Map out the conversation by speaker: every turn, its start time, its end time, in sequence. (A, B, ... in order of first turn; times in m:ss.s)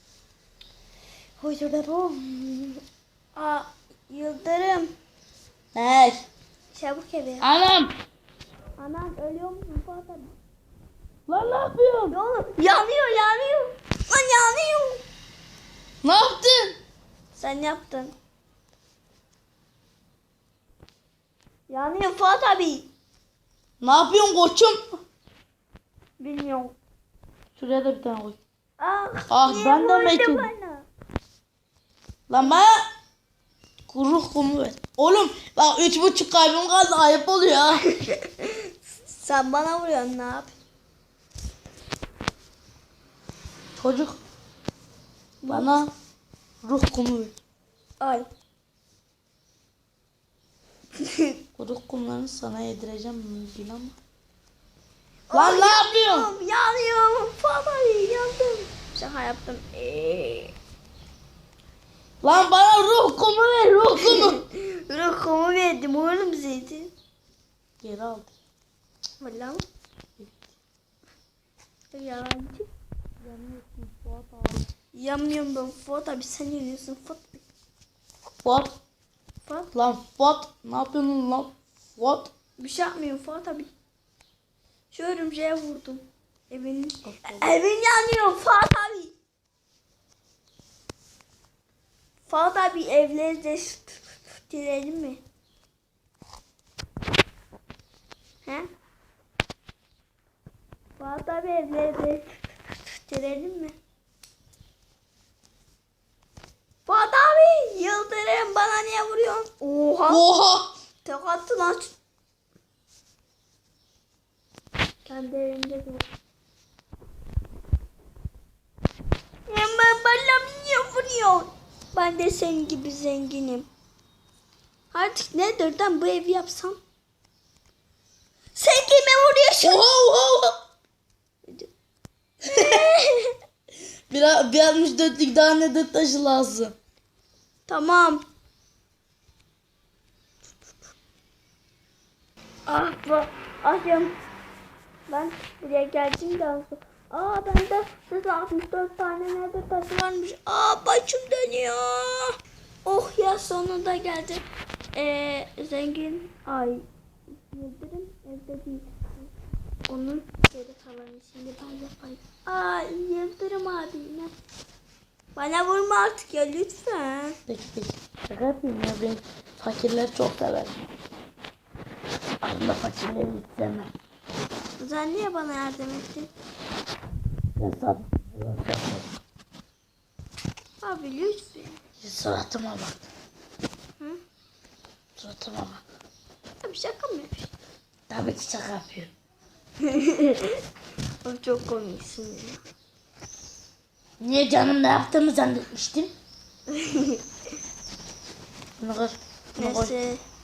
0:01.4-0:02.8 A
0:03.4-0:04.9 A
0:05.8-0:06.2 B
0:06.7-0:07.5 A
0:07.4-0:08.0 B
0:08.8-0:10.4 A
0:11.3-0:12.2 B
0:12.1-0:15.0 A
0:16.0-0:16.8 B
0:17.4-0:18.1 A
0:21.7-0:22.9 A
0:23.8-0:25.0 B
0:26.2-0:26.8 A
0:27.6-0:28.4 B
0:28.8-0:30.9 A
0:29.3-0:30.5 B
0:32.3-0:32.8 B
0:33.9-0:37.9 B
0:37.9-0:40.6 A
0:43.8-0:44.2 B
0:45.4-0:45.8 A
0:45.5-0:45.9 B
0:46.6-0:47.4 B
0:48.0-0:48.3 A
0:51.0-0:51.4 A
0:51.6-0:54.0 B
0:55.3-1:00.5 A
0:55.3-0:56.3 B
1:02.2-1:04.4 B
1:04.0-1:06.9 A
1:07.8-1:08.3 B
1:09.2-1:09.6 A
1:11.9-1:12.7 A
1:13.2-1:14.7 B
1:14.9-1:17.4 A
1:18.4-1:18.8 B
1:19.4-1:19.7 A
1:19.7-1:22.3 B
1:22.6-1:23.7 A
1:24.9-1:29.2 A
1:27.0-1:27.5 B
1:32.3-1:35.2 A
1:41.0-1:43.8 A
1:46.9-1:50.2 A
1:50.1-1:50.7 B
1:51.0-1:51.9 A
1:55.0-1:56.0 A
1:59.5-2:03.7 A
2:04.9-2:06.8 A
2:08.6-2:09.9 A
2:09.6-2:10.6 B
2:12.4-2:13.3 A
2:12.5-2:12.8 B
2:14.1-2:16.7 B
2:17.7-2:18.2 A
2:22.7-2:24.2 A
2:25.1-2:34.4 A
2:35.0-2:36.8 A
2:37.4-2:39.3 A
2:39.9-2:44.3 A
2:45.4-2:47.4 A
2:47.5-2:50.8 B
2:52.4-2:53.9 B
2:54.8-2:56.3 A
2:57.6-2:59.1 B
3:00.8-3:01.8 A
3:02.0-3:03.1 B
3:05.2-3:05.8 B
3:06.6-3:07.5 A
3:08.1-3:09.1 B
3:09.8-3:10.6 A
3:11.2-3:12.6 A
3:14.2-3:16.1 B
3:16.7-3:17.2 A
3:18.8-3:20.0 B
3:19.6-3:20.2 A